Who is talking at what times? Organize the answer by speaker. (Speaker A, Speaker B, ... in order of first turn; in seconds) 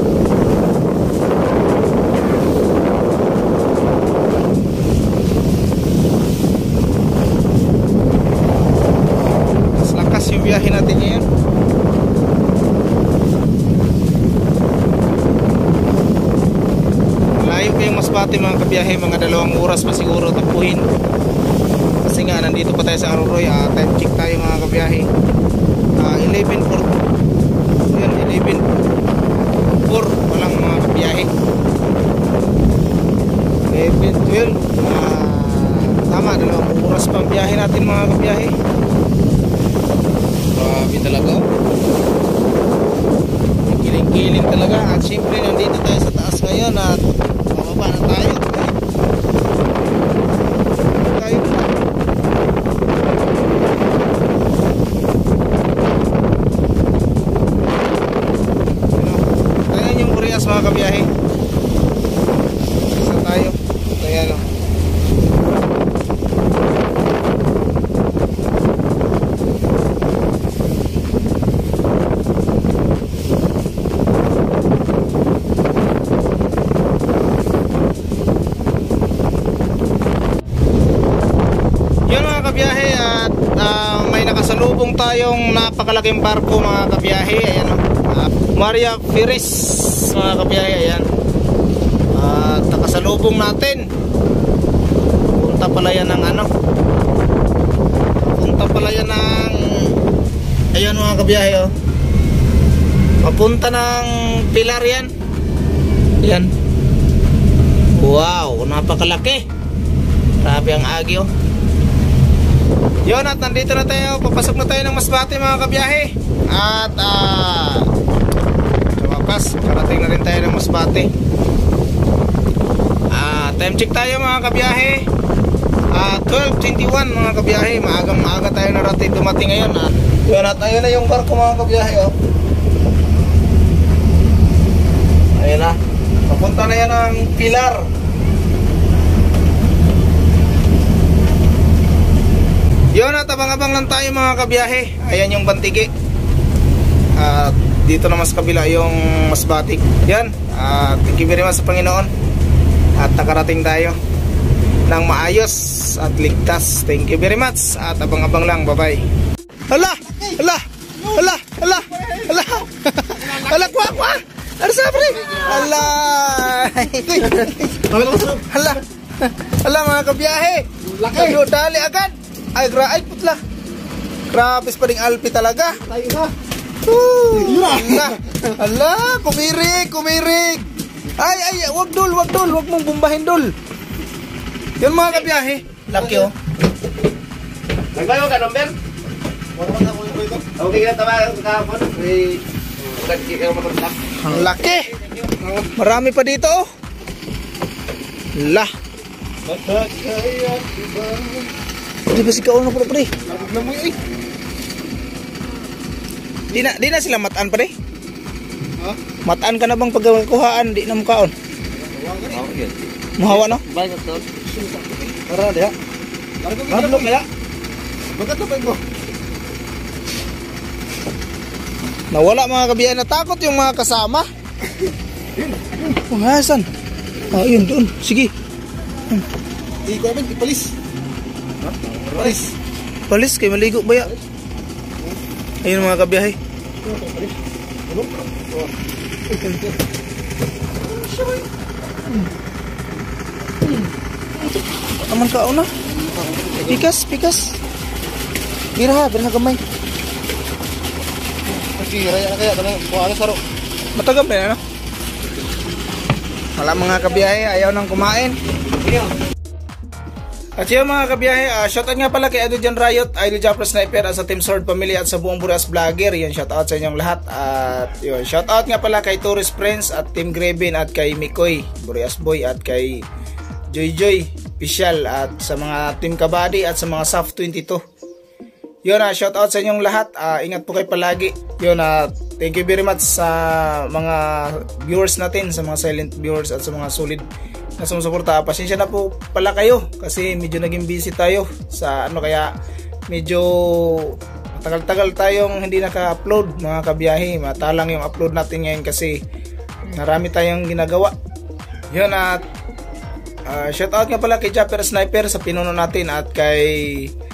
Speaker A: 9.8-11.2, 17.3-20.9, 22.0-25.1, 26.0-27.0, 27.9-28.6, 29.7-31.3, 33.6-38.5, 40.5-41.5, 43.6-47.0, 47.5-48.7, 51.0-51.7, 58.9-61.1, 62.9-64.5, 82.1-91.1, 92.1-93.9, 95.3-96.5, 98.2-99.9, 100.7-101.7, 103.2-105.1, 106.2-106.5, 108.0-109.4, 110.4-111.3, 113.0-117.9, 119.0-121.1, 123.1-125.0, 125.9-132.1, 135.3-137.8, 142.9-145.9, 147.2-152.1, 153.0-154.0, 154.9-159.1, 159.7-173.4, 174.3-175.8, 176.8-183.5, 184.8-186.3, 194.1-194.9, 195.7-196.7, 198.3-198.7, 202.1-203.1, 206.5-207.7, 209.2-211.3, 213.2-213.6, 216.7-217.2, 222.1-224.2, 225.8-226.7, 227.3-228.3, 233.1-234.1, 235.6-236.3, 244.9-245.7, 246.6-247.6, 248.8-249.6, 251.7-253.4, 253.9-254.6, 256.6-258.4, 260.6-273.1, 273.7-277.8, 278.9-287.2, 287.8-292.5, 293.1-299.2, 299.9-301.1, 301.9-302.4, 303.5-307.1
Speaker B: 161.0-162.3, 163.2-163.9, 165.2-165.8, 167.1-168.4, 170.8-171.4, 175.8-176.3, 177.3-178.4, 189.6-190.4, 199.5-201.5, 203.2-204.0, 211.8-212.5, 216.4-217.1, 218.1-218.8, 229.8-230.7, 232.1-232.5, 236.8-237.3, 237.9-238.6, 246.2-246.6
Speaker C: 187.9-188.7, 190.4-193.9, 195.0-195.5, 212.4-212.7, 213.3-214.2